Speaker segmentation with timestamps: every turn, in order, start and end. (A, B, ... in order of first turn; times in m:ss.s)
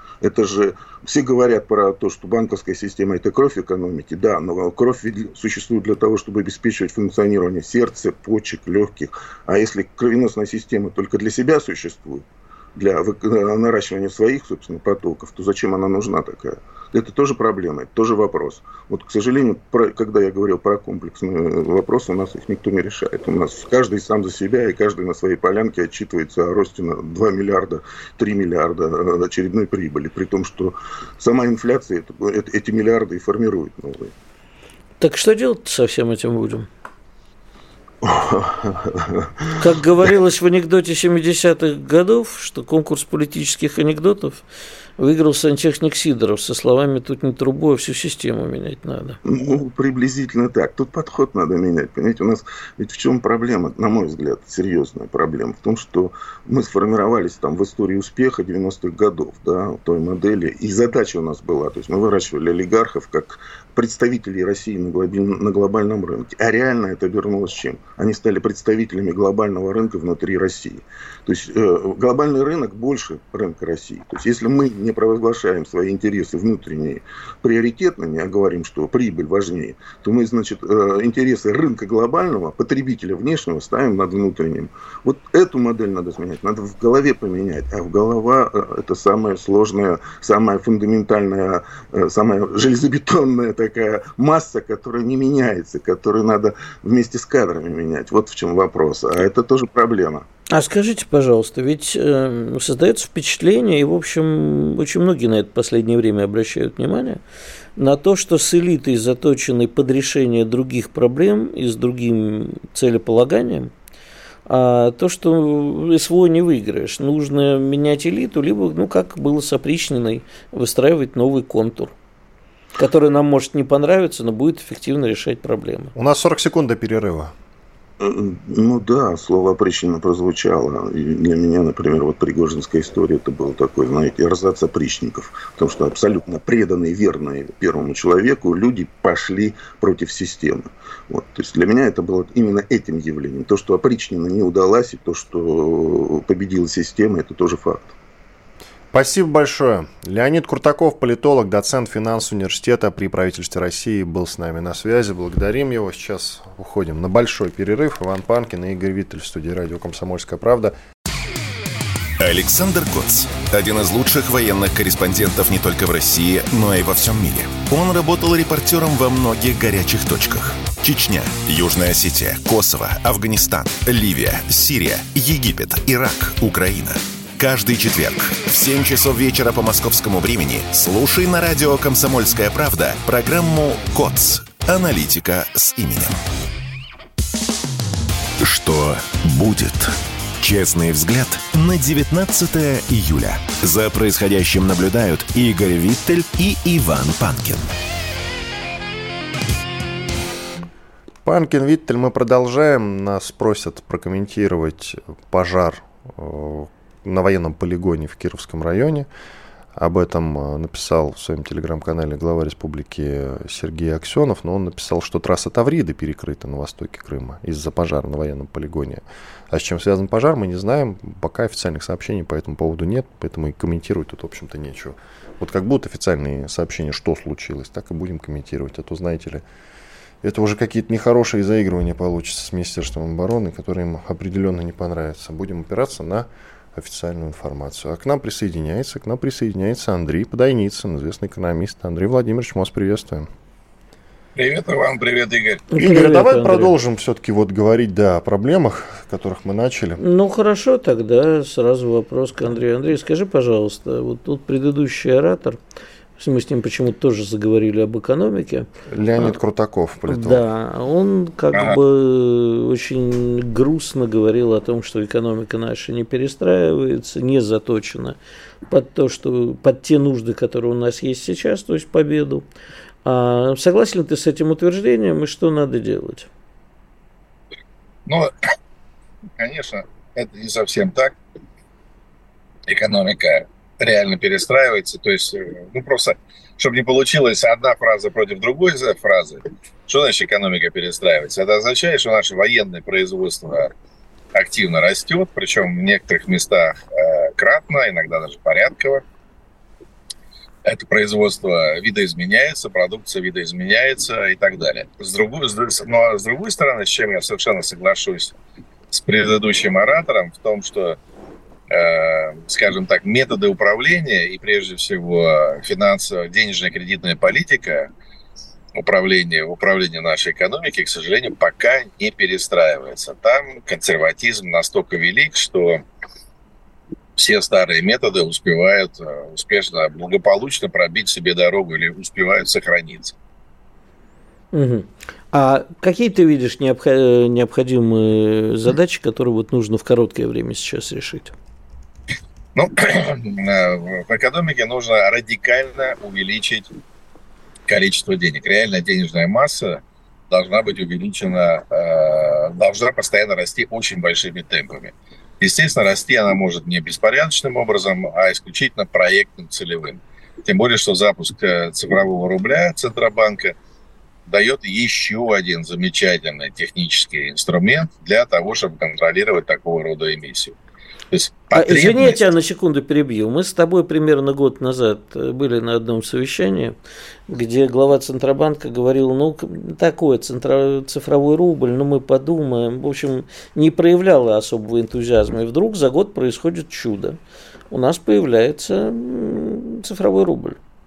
0:00.2-0:34.1 A
0:35.0-0:36.7 B
0:38.0-0:39.6 A
0:39.6-0:44.4 B
0:45.0-0:49.2 B
0:49.2-1:40.2 A
1:40.5-1:47.2 B
1:47.8-1:53.7 B
1:54.5-2:01.9 B
2:02.8-2:05.9 B
2:05.9-2:07.3 C
2:08.0-2:27.9 A
2:28.9-2:40.7 C
2:42.2-3:06.2 D
3:08.4-3:17.7 D
3:21.2-3:29.1 C
3:29.7-3:49.4 C
3:50.2-4:03.3 C
4:04.4-4:05.6 E
4:05.7-4:06.7 B
4:05.8-4:10.0 C
4:10.0-4:15.6 B
4:16.2-4:18.6 B
4:18.9-4:20.4 C
4:20.1-4:28.2 B
4:28.7-4:32.4 B
4:33.0-4:36.3 B
4:38.0-4:38.3 E
4:39.4-4:41.1 E
4:42.7-4:53.7 E
4:54.3-4:59.0 E
5:00.6-5:08.3 E
5:08.9-5:11.0 E
5:11.7-5:17.9 E
5:18.8-5:25.8 E
5:27.2-5:33.1 E
5:34.5-5:41.3 B
5:42.5-5:46.7 E
5:47.7-6:03.6 E
6:04.2-6:10.6 E
6:11.1-6:12.2 E
6:11.5-6:16.8 B
6:17.3-6:27.2 B
6:27.7-6:30.6 B